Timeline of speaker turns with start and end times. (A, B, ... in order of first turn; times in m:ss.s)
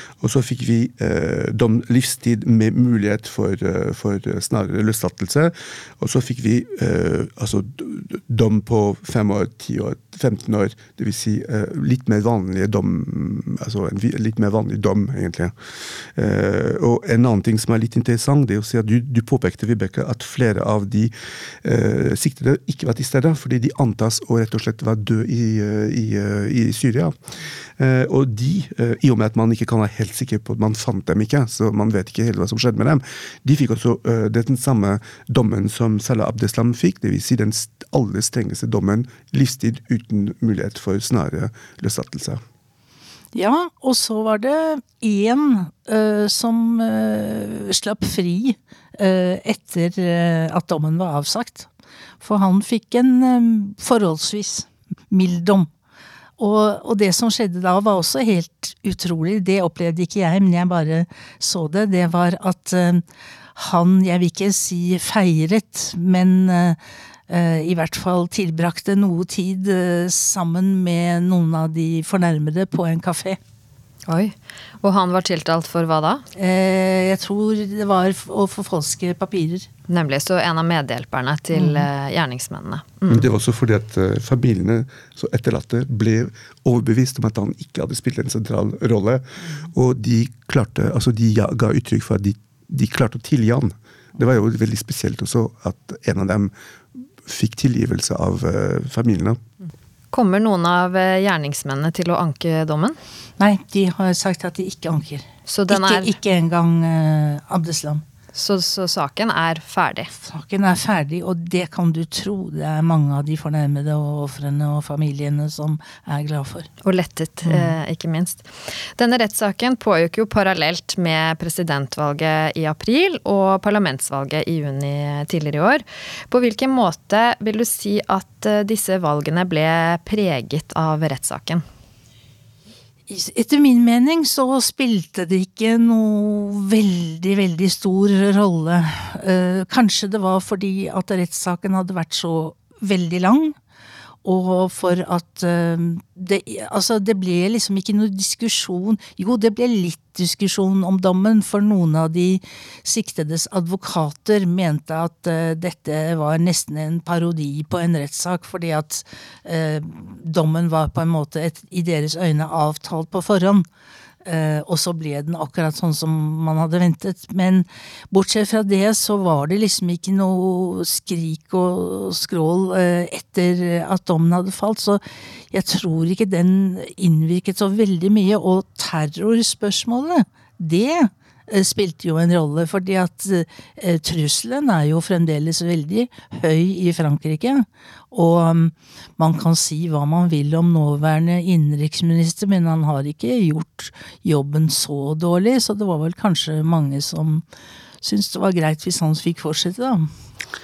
0:00.2-0:27.1 A
0:27.8-0:42.4 A
0:43.3-0:51.7 B
0:52.2-0:55.7 B
0:56.4-1:03.0 B
1:03.5-1:06.8 B
1:07.3-1:13.4 B
1:14.1-1:16.2 C
1:16.3-1:19.7 B
1:19.9-1:23.2 C
1:21.6-1:21.8 B
1:23.1-1:36.5 A
1:37.2-1:39.4 A
1:40.1-1:43.0 C
1:43.4-1:48.0 B
1:45.5-1:46.1 C
1:48.3-1:50.1 C
1:50.1-1:56.7 B
1:56.8-2:11.6 C
2:13.1-2:23.6 B
2:24.2-2:43.6 B
2:44.2-3:17.4 B
3:18.0-3:20.1 B